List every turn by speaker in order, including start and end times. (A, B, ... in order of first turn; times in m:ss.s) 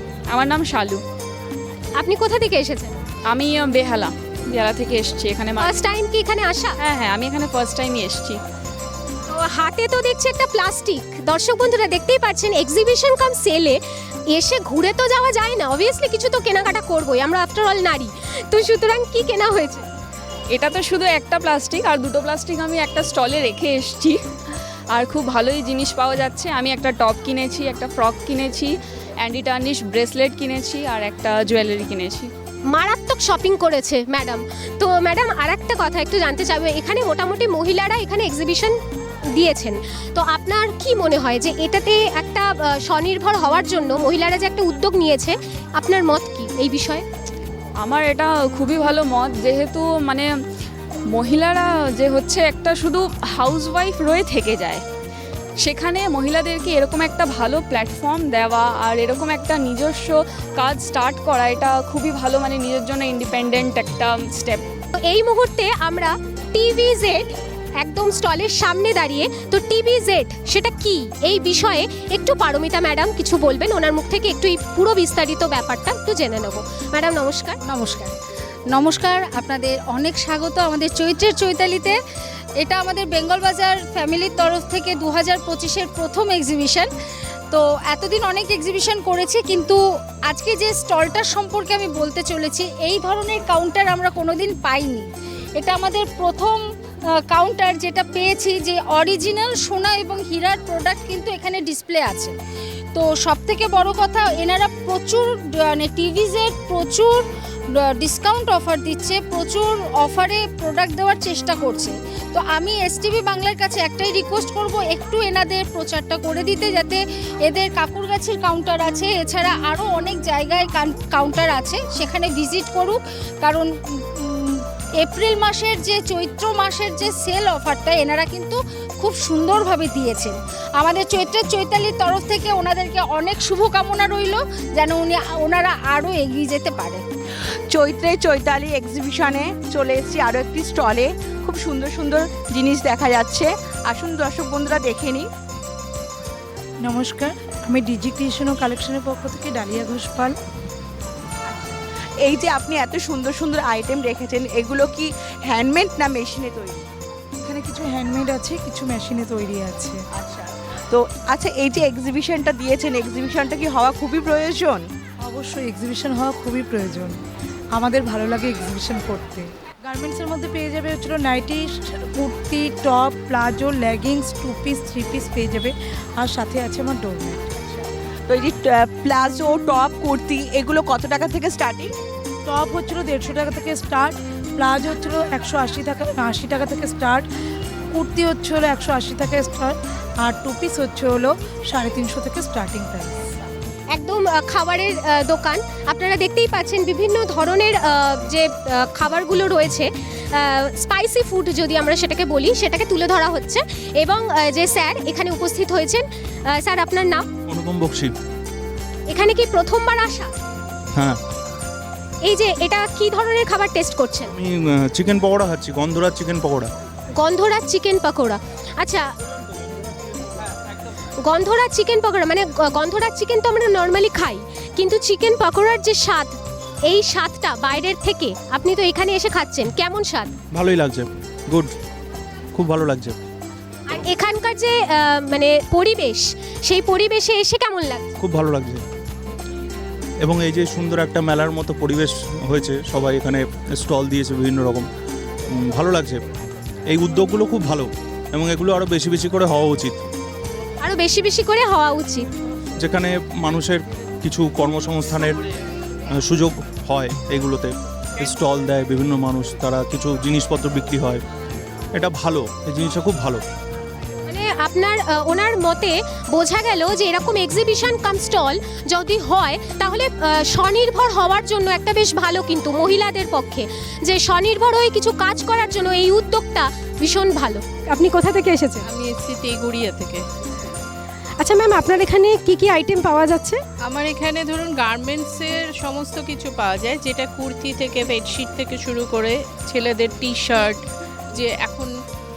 0:00.3-0:01.0 A
0:02.0-0:03.0 B
0:03.3-0:05.8 A
0:05.6-0:06.8 B
0:06.8-0:08.4 A
0:09.3-0:13.8 B
0:14.3-0:19.8 B
0:20.5-0:24.2 A
0:24.9-0:32.3 A
0:32.7-0:38.8 B
0:39.3-0:47.0 B
0:47.8-0:50.3 A
0:51.1-0:54.8 A
0:55.6-1:04.6 A
1:05.0-1:17.6 B
1:17.6-1:18.1 C
1:18.7-1:22.0 C
1:22.6-1:26.9 C
1:27.5-1:36.6 C
1:37.3-1:42.3 C
1:42.9-2:17.0 C
2:17.7-2:25.3 D
2:26.8-2:30.4 E
2:31.5-2:36.8 D
2:37.4-2:40.0 E
2:40.2-2:44.8 D
2:45.2-2:47.2 E
2:47.8-2:57.8 E
2:58.3-3:01.9 D
3:02.5-3:07.2 E
3:07.9-3:13.4 E
3:13.9-3:27.3 B
3:27.5-3:28.1 F
3:29.1-3:30.3 B
3:32.2-3:34.3 B
3:34.3-3:36.7 F
3:37.2-3:39.1 B
3:41.2-3:50.3 B
3:50.5-3:51.7 F
3:52.6-3:53.2 F
3:53.9-3:58.1 B
3:58.2-3:58.8 F
4:00.2-4:04.8 F
4:05.7-4:06.2 F
4:06.9-4:10.0 F
4:10.8-4:12.3 B
4:12.8-4:15.4 F
4:16.2-4:21.2 F
4:22.0-4:23.4 F
4:24.3-4:37.6 B
4:37.9-4:38.9 G
4:38.8-4:40.2 H
4:41.4-4:43.6 G
4:43.8-4:51.9 H